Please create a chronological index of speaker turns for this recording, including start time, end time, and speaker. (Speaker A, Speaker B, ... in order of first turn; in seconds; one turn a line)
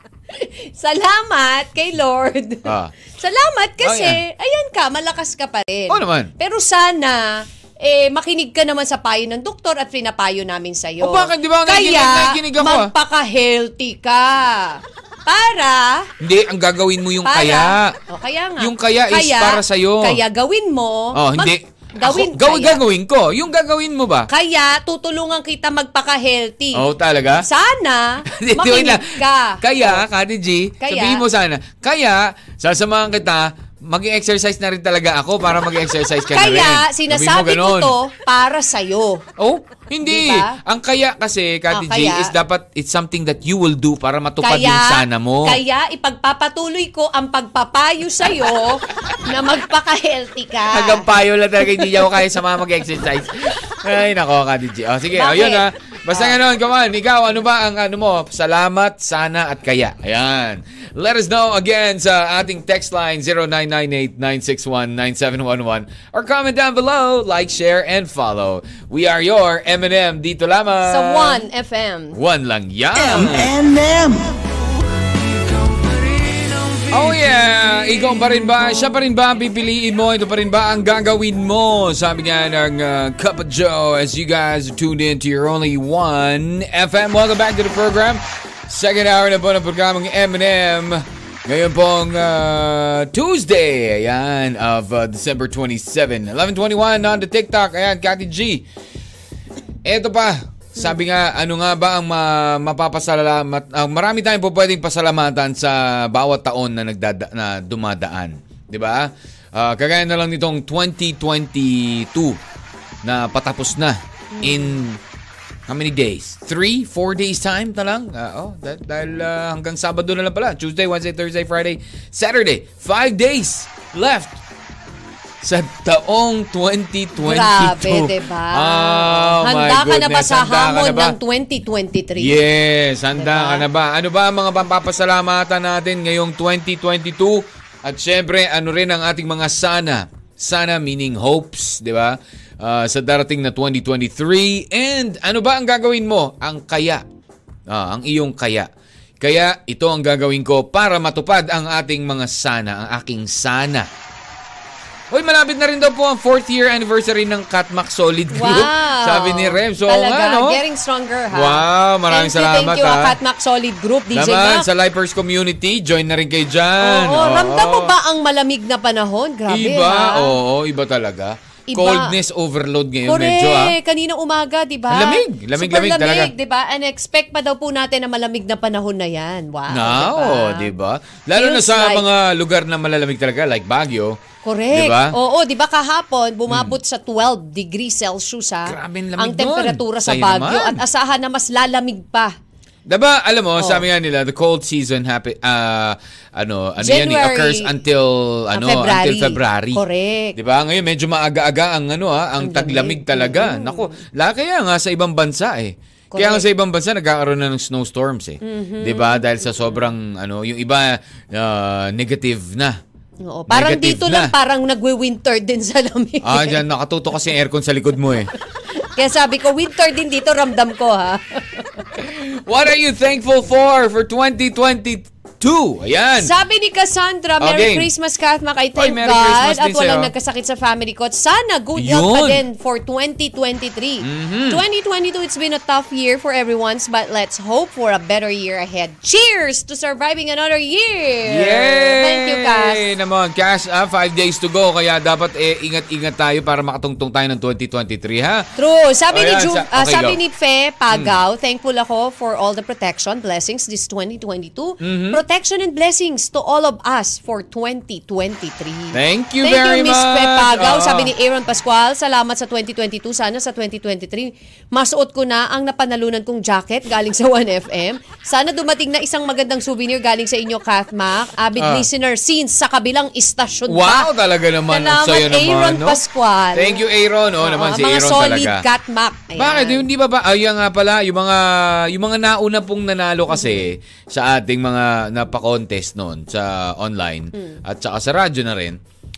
Speaker A: 0.3-16.1
Speaker B: 2.6-2.9
Speaker B: 3.8-4.2
Speaker B: 5.9-6.3
Speaker B: 11.0-12.9
Speaker B: 16.2-18.0
Speaker A: 17.2-22.8
Speaker B: 18.6-20.2
Speaker B: 21.1-24.3
Speaker A: 24.3-26.8
Speaker B: 26.7-27.5
Speaker A: 27.4-30.0
Speaker B: 28.3-38.0
Speaker A: 30.8-31.2
Speaker A: 36.3-39.2
Speaker B: 39.4-45.6
Speaker A: 40.0-40.6
Speaker A: 41.7-42.3
Speaker A: 44.4-51.1
Speaker B: 50.7-71.5
Speaker A: 55.1-56.4
Speaker A: 70.8-72.2
Speaker B: 72.1-73.5
Speaker C: 73.0-74.3
Speaker C: 76.2-76.9
Speaker B: 76.9-98.7
Speaker B: 99.8-112.4
Speaker B: 113.0-115.0
Speaker A: 114.3-114.8
Speaker B: 115.7-124.4
Speaker B: 125.4-131.2
Speaker A: 127.2-132.4
Speaker B: 132.2-147.0
Speaker A: 133.2-133.7
Speaker B: 147.7-148.7
Speaker B: 149.2-153.9
Speaker B: 155.1-160.6
Speaker A: 158.3-164.7
Speaker B: 161.3-163.2
Speaker B: 164.1-167.9
Speaker A: 166.8-170.3
Speaker B: 169.5-173.8
Speaker A: 171.7-172.2
Speaker A: 173.1-180.7
Speaker B: 174.9-176.3
Speaker B: 179.7-185.2
Speaker A: 181.3-182.1
Speaker A: 184.4-192.3
Speaker B: 186.5-186.8
Speaker B: 188.7-190.8
Speaker B: 192.9-199.8
Speaker A: 193.6-193.8
Speaker A: 196.8-197.7
Speaker A: 198.5-200.4
Speaker B: 200.3-212.8
Speaker A: 202.4-204.0
Speaker A: 206.1-206.5
Speaker A: 208.4-209.9
Speaker A: 213.2-216.6
Speaker B: 213.5-214.3
Speaker B: 216.2-218.3
Speaker A: 218.8-221.9
Speaker B: 221.9-226.3
Speaker A: 226.2-242.8
Speaker B: 227.4-227.9
Speaker B: 228.8-230.1
Speaker B: 231.8-232.4
Speaker B: 234.0-234.6
Speaker B: 241.3-248.5
Speaker A: 248.6-274.1
Speaker B: 249.1-250.2
Speaker B: 250.9-251.2
Speaker B: 254.8-255.2
Speaker B: 258.9-261.1
Speaker B: 271.6-271.9
Speaker B: 273.7-276.0
Speaker A: 274.7-276.8
Speaker B: 276.5-278.6
Speaker A: 277.4-279.9
Speaker B: 279.4-288.8
Speaker A: 283.3-283.6
Speaker A: 287.3-287.6